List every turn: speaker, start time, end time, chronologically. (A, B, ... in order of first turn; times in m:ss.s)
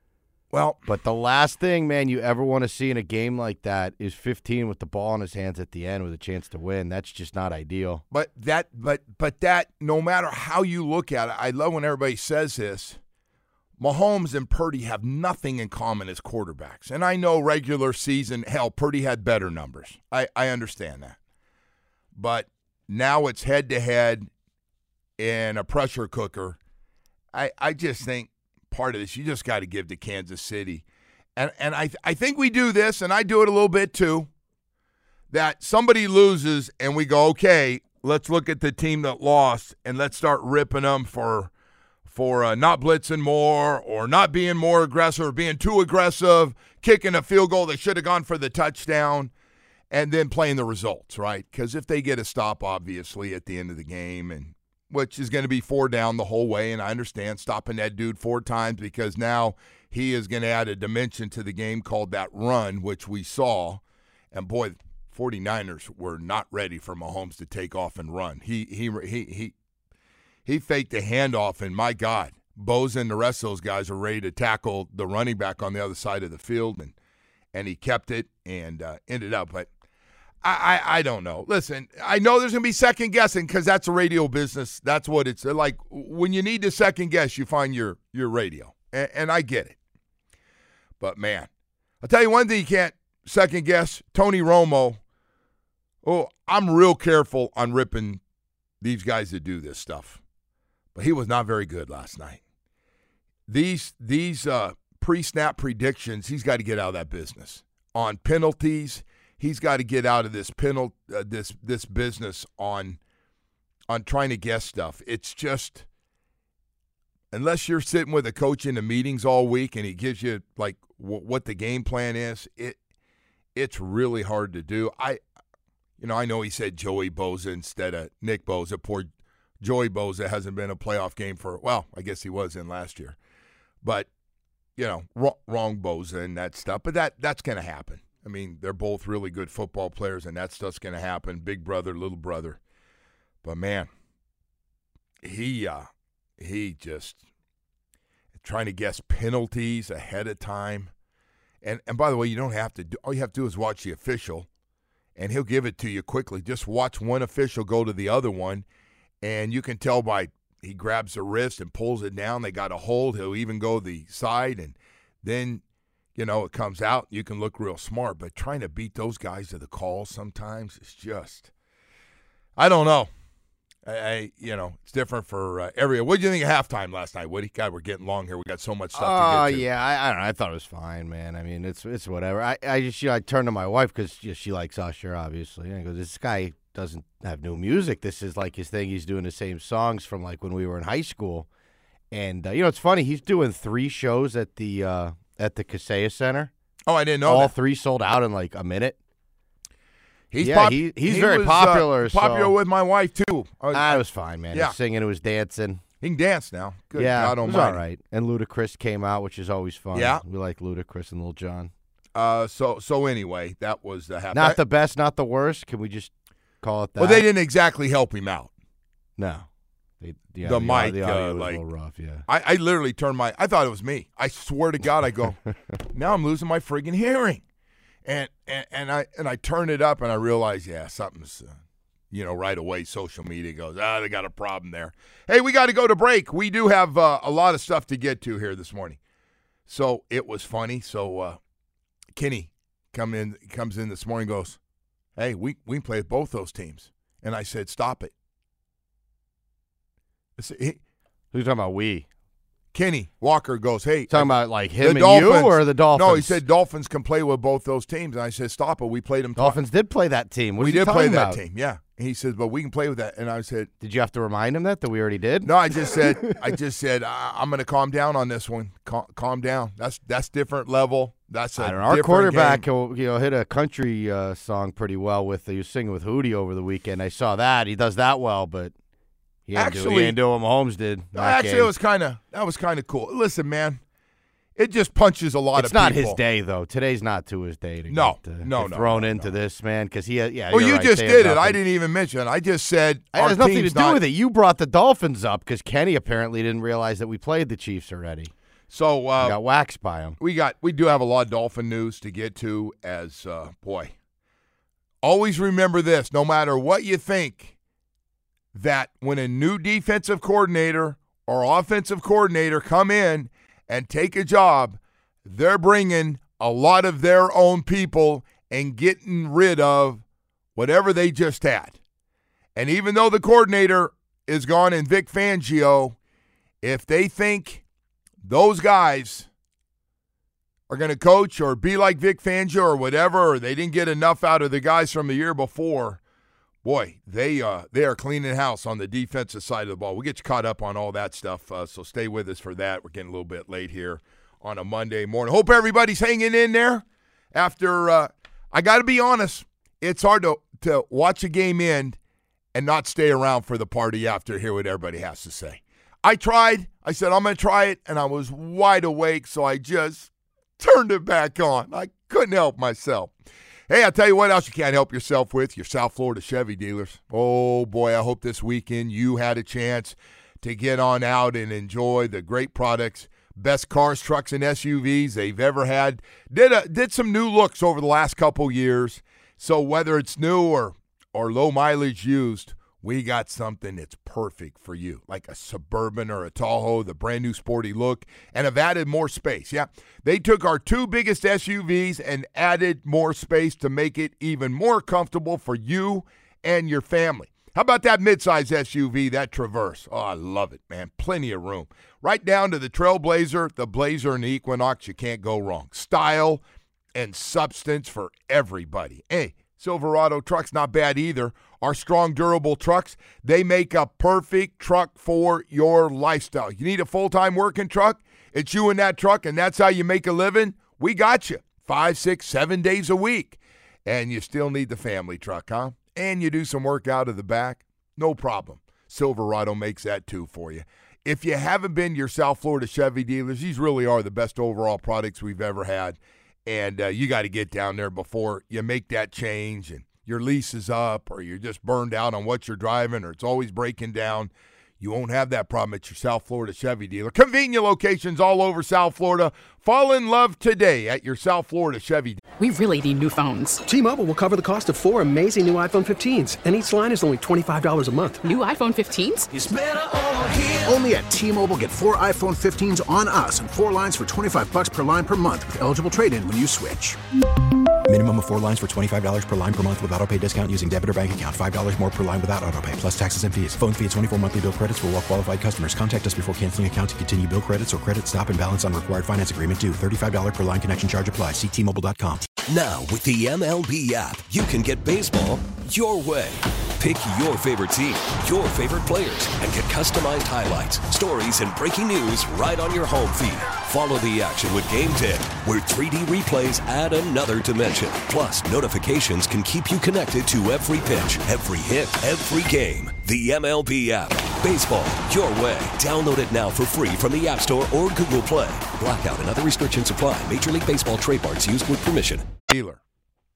0:00.5-0:00.9 A
0:00.9-0:08.0 B
0:08.1-0:13.0 A
0:13.8-0:21.2 A
0:22.2-0:24.3 A
0:25.2-0:26.6 A
0:27.3-0:30.8 A
0:31.4-0:34.3 A
0:35.3-0:41.5 A
0:42.1-0:49.3 A
0:49.9-1:09.5 A
1:10.4-1:16.9 A
1:17.5-1:19.7 A
1:20.4-1:29.8 A
1:31.0-1:31.5 A
1:32.0-1:35.0 A
1:36.0-1:38.2 A
1:38.8-1:40.2 A
1:40.9-1:42.4 A
1:43.5-1:53.0 A
1:53.9-1:55.8 A
1:57.3-2:02.8 A
2:03.5-2:05.2 A
2:06.0-2:09.1 A
2:09.6-2:13.2 A
2:13.8-2:14.1 A
2:14.8-2:22.6 A
2:23.4-2:23.9 A
2:25.2-2:25.9 A
2:26.4-2:27.2 A
2:28.4-2:30.9 A
2:31.6-2:34.5 A
2:35.2-2:38.6 A
2:39.2-2:45.6 A
2:46.2-2:51.5 A
2:52.6-2:53.1 A
2:53.8-2:59.6 A
2:58.9-3:11.5 B
3:12.1-3:16.5 B
3:16.9-3:17.5 A
3:17.2-3:19.0 B
3:20.3-3:24.0 A
3:20.4-3:22.5 B
3:23.7-3:25.8 B
3:26.0-3:27.8 A
3:27.0-3:31.7 B
3:29.9-3:30.2 A
3:32.1-3:34.6 A
3:34.3-3:37.2 B
3:37.0-3:38.5 A
3:39.2-3:39.5 B
3:40.0-3:42.2 B
3:40.4-3:41.6 A
3:42.3-3:45.4 A
3:45.9-3:47.4 A
3:48.0-3:51.6 A
3:52.1-3:59.0 A
3:59.7-4:01.4 A
4:02.1-4:04.6 A
4:05.2-4:08.1 A
4:10.4-4:10.8 A
4:11.3-4:12.1 B
4:12.7-4:19.6 A
4:14.1-4:16.4 B
4:19.4-4:21.4 B
4:20.6-4:23.7 A
4:23.8-4:26.0 B
4:25.4-4:32.6 A
4:31.6-4:38.7 B
4:39.5-4:41.7 B
4:39.5-4:40.2 A
4:41.1-4:43.8 A
4:44.6-4:46.2 A
4:45.5-4:51.6 B
4:47.9-4:49.3 A
4:50.5-4:54.0 A
4:53.1-4:58.3 B
4:58.7-4:59.4 A
4:59.2-5:00.2 B
5:00.2-5:03.9 A
5:05.0-5:07.5 A
5:08.5-5:20.0 A
5:20.5-5:21.8 A
5:22.6-5:26.0 A
5:26.6-5:27.6 A
5:28.2-5:29.3 A
5:30.7-5:36.0 A
5:36.6-5:52.0 A
5:52.5-6:03.1 A
6:03.7-6:46.4 A
6:46.9-7:32.2 A
7:32.4-7:33.6 C
7:33.6-7:38.2 D
7:38.2-7:39.3 C
7:40.6-7:47.0 E
7:47.8-8:02.3 F
8:02.4-8:32.3 G
8:32.5-8:32.8 A